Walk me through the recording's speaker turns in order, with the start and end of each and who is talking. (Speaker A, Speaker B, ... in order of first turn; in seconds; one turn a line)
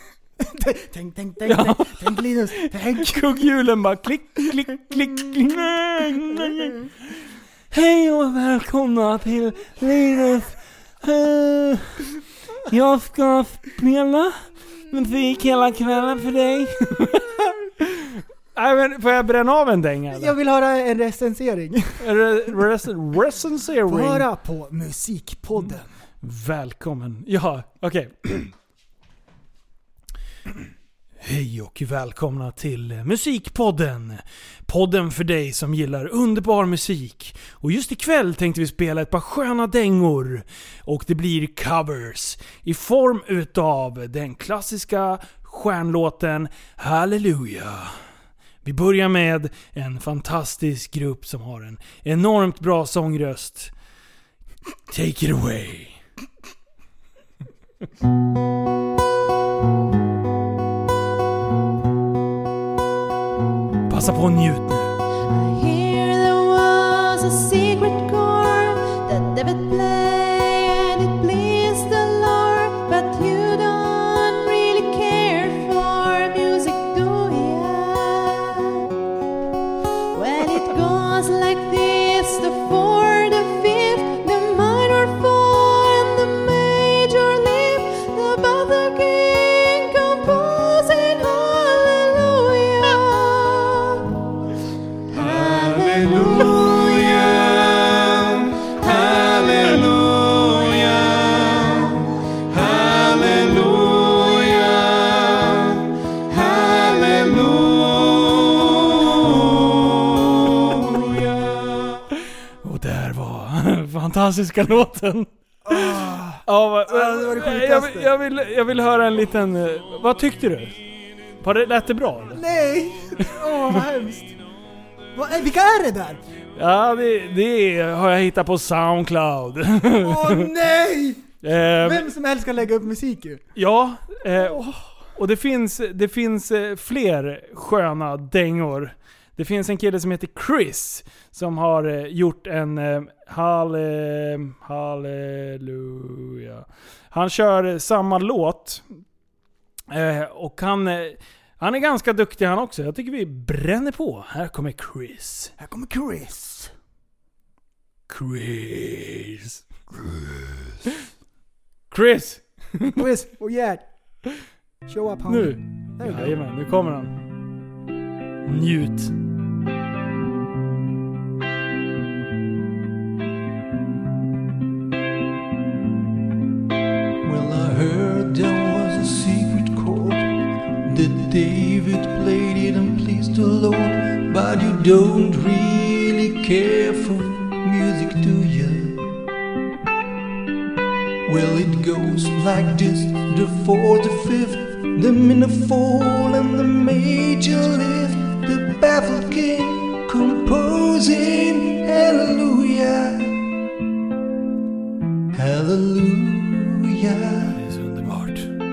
Speaker A: 0.4-3.4
Speaker B: 1.4-6.9
Speaker B: 7.7-12.1
Speaker B: 12.6-20.3
Speaker A: 20.1-22.0
Speaker B: 22.0-24.3
Speaker A: 23.9-25.9
Speaker B: 26.2-28.5
Speaker B: 31.2-47.9
Speaker B: 48.6-53.7
Speaker B: 54.9-56.0
Speaker B: 63.9-64.9
Speaker C: 65.3-78.8
Speaker C: 80.1-94.1
Speaker D: 95.1-112.0
Speaker C: 95.2-97.2
Speaker B: 112.6-120.8
Speaker A: 115.7-118.1
Speaker B: 121.4-122.4
Speaker A: 122.3-124.3
Speaker B: 123.4-123.8
Speaker A: 125.2-126.2
Speaker B: 126.5-130.5
Speaker A: 130.0-131.3
Speaker B: 131.4-132.1
Speaker A: 131.8-133.4
Speaker B: 133.6-134.6
Speaker A: 134.3-134.8
Speaker B: 135.2-148.8
Speaker B: 149.9-155.5
Speaker A: 155.6-156.7
Speaker B: 158.1-161.1
Speaker B: 161.9-163.0
Speaker A: 162.9-163.8
Speaker A: 164.9-166.4
Speaker B: 165.3-167.2
Speaker B: 168.4-169.1
Speaker E: 177.2-189.1
Speaker E: 191.3-203.5
Speaker E: 205.3-207.6
Speaker B: 207.6-208.6